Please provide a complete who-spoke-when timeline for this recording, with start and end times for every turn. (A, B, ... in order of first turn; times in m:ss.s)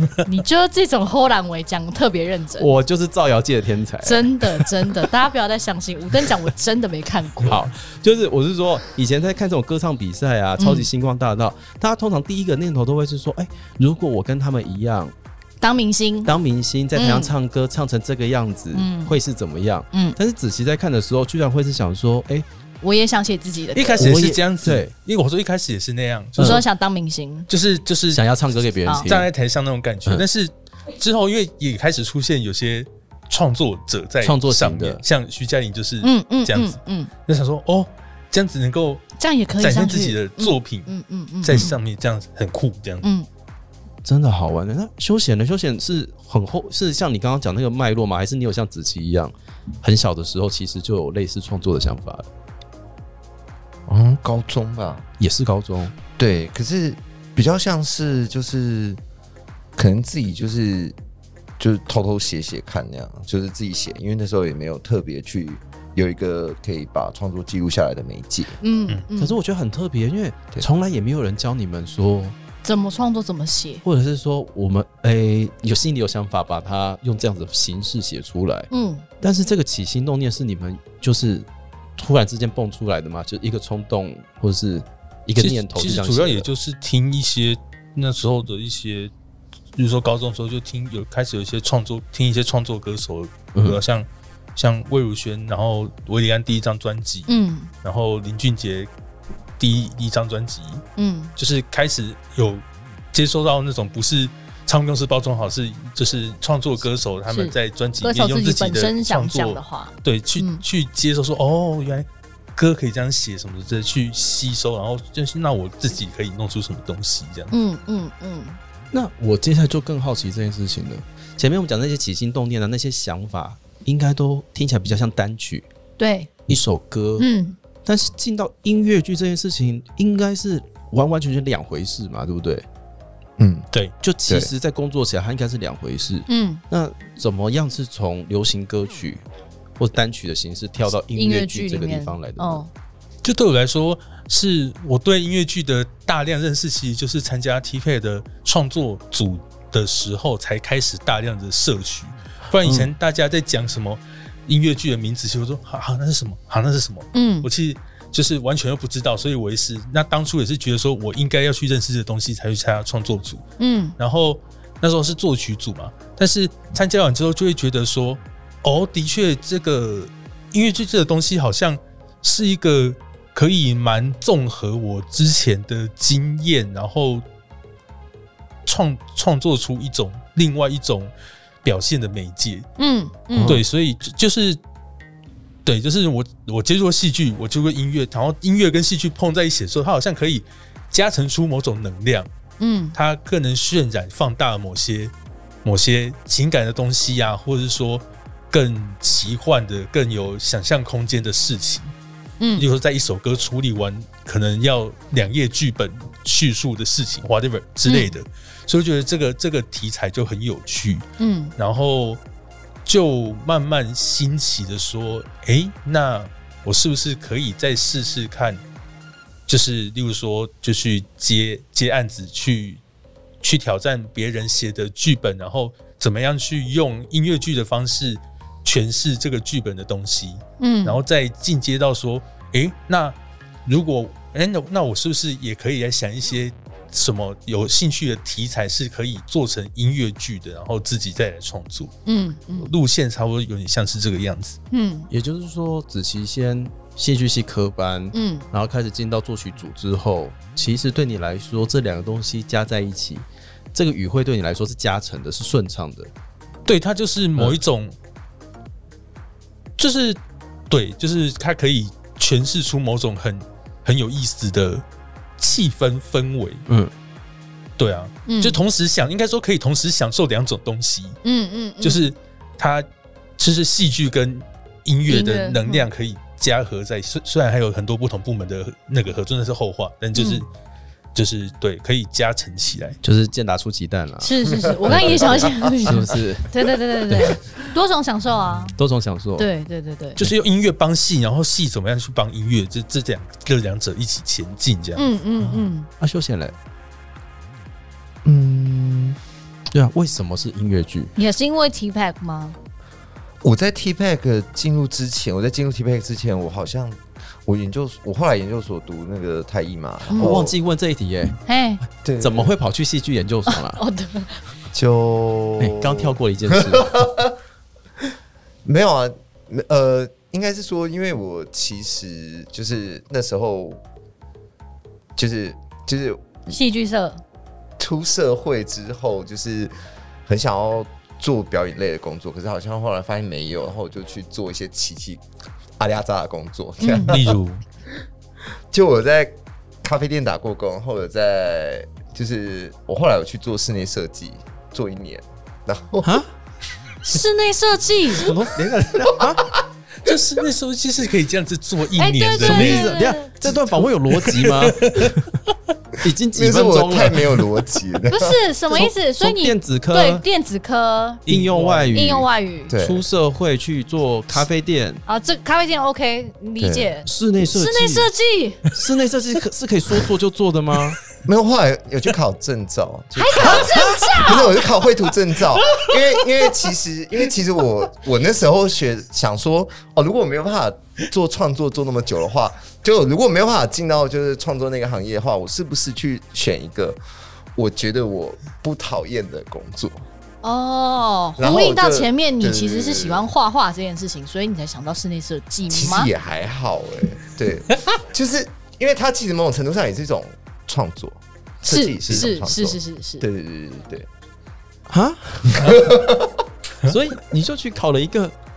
0:00.2-0:02.8 A
0:02.6-0:05.0 B
0:04.0-0:07.6 A
0:07.4-0:15.1 B
0:10.6-0:10.9 A
0:15.6-0:16.3 A
0:16.2-0:22.4 B
0:16.9-0:17.3 A
0:18.7-0:19.2 A
0:19.9-0:20.2 A
0:22.8-0:24.2 A
0:23.7-0:26.6 C
0:24.0-0:24.9 B
0:26.4-0:26.6 B
0:26.4-0:27.5 A
0:27.5-0:28.3 C
0:28.1-0:29.3 B
0:28.8-0:29.1 A
0:28.9-0:39.0 C
0:34.2-0:35.0 B
0:36.0-0:37.1 A
0:39.2-0:41.8 A
0:39.6-0:40.9 C
0:41.4-0:43.1 C
0:44.0-0:52.3 B
0:53.9-0:55.0 D
0:55.2-0:55.9 B
0:56.2-0:59.0 D
0:59.8-1:01.0 D
1:01.6-1:08.6 D
1:08.6-1:09.4 A
1:09.2-1:12.4 B
1:12.6-1:13.8 A
1:13.8-1:18.7 B
1:18.7-1:19.0 A
1:19.2-1:26.4 B
1:25.4-1:29.1 C
1:29.8-1:37.3 C
1:33.6-1:33.8 B
1:37.3-1:37.7 A
1:37.8-1:38.9 C
1:39.6-1:40.8 C
1:41.0-1:41.3 A
1:41.4-1:57.5 C
1:47.3-1:50.6 A
1:57.5-1:58.6 A
1:58.9-2:05.7 B
2:06.0-2:06.3 A
2:06.5-2:07.3 B
2:07.2-2:07.6 A
2:07.8-2:12.6 B
2:13.4-2:13.7 D
2:14.0-2:19.2 B
2:16.3-2:16.6 A
2:19.8-2:22.6 B
2:21.1-2:22.7 A
2:23.2-2:43.4 C
2:32.6-2:32.9 B
2:37.1-2:37.5 A
2:43.6-2:43.9 A
2:44.0-2:57.2 C
2:58.6-3:01.1 C
3:01.6-3:02.7 C
3:02.8-3:03.6 A
3:03.3-3:03.6 B
3:03.4-3:04.6 C
3:05.6-3:12.3 C
3:12.6-3:13.0 A
3:12.9-3:15.1 C
3:15.6-3:21.9 C
3:22.4-3:22.6 A
3:22.6-3:32.2 C
3:27.8-3:28.1 A
3:31.2-3:31.5 A
3:32.8-3:38.6 C
3:39.5-3:42.8 C
3:43.4-4:01.9 C
3:50.6-3:51.0 A
4:02.0-4:02.7 A
4:02.6-4:04.6 C
4:04.7-4:05.1 A
4:05.1-4:16.1 B
4:08.1-4:08.4 A
4:16.6-4:17.9 C
4:19.8-4:24.8 C
4:25.4-4:26.6 C
4:26.7-4:26.9 B
4:27.8-4:31.2 C
4:28.2-4:28.6 A
4:31.2-4:32.0 A
4:31.8-4:32.9 C
4:33.4-4:40.5 C
4:35.1-4:35.8 A
4:40.1-4:40.4 A
4:41.1-4:43.0 C
4:43.0-4:46.6 B
4:44.2-4:48.8 A
4:47.1-4:47.4 B
4:48.8-4:49.5 B
4:49.4-4:50.2 A
4:50.2-4:55.0 C
4:55.0-4:55.9 A
4:55.4-4:55.7 D
4:56.0-4:56.5 B
4:58.2-4:59.2 D
4:59.7-5:01.1 B
5:01.2-5:02.6 A
5:03.4-5:10.6 D
5:10.1-5:10.4 A
5:10.1-5:11.4 B
5:11.4-5:11.8 A
5:12.0-5:12.6 D
5:12.2-5:13.8 B
5:13.5-5:14.4 A
5:14.7-5:17.3 D
5:15.6-5:17.0 B
5:18.6-5:23.8 D
5:25.2-5:26.6 D
5:26.5-5:27.2 A
5:27.8-5:29.7 D
5:30.3-5:35.2 D
5:35.8-5:37.4 D
5:36.8-5:37.1 A
5:37.0-5:37.6 C
5:38.7-5:46.2 D
5:46.0-5:46.3 B
5:47.0-5:48.3 A
5:48.1-5:49.5 B
5:50.0-5:53.0 C
5:52.0-5:53.3 A
5:52.4-5:55.3 B
5:54.1-5:55.1 C
5:56.0-5:57.3 B
5:56.3-5:58.4 D
5:58.1-6:01.2 A
5:58.7-6:00.2 B
6:01.3-6:02.1 C
6:01.3-6:02.3 B
6:01.9-6:02.7 A
6:02.7-6:03.0 D
6:02.8-6:05.0 B
6:05.0-6:08.6 A
6:06.6-6:06.9 D
6:07.0-6:08.1 B
6:08.7-6:11.0 B
6:11.2-6:27.0 D
6:13.2-6:14.6 A
6:13.4-6:14.1 B
6:15.6-6:16.1 C
6:27.6-6:30.0 D
6:30.4-6:36.1 A
6:31.4-6:33.3 D
6:35.7-6:44.1 D
6:41.7-6:43.2 A
6:44.9-6:45.8 B
6:45.5-6:46.4 D
6:46.8-6:48.3 B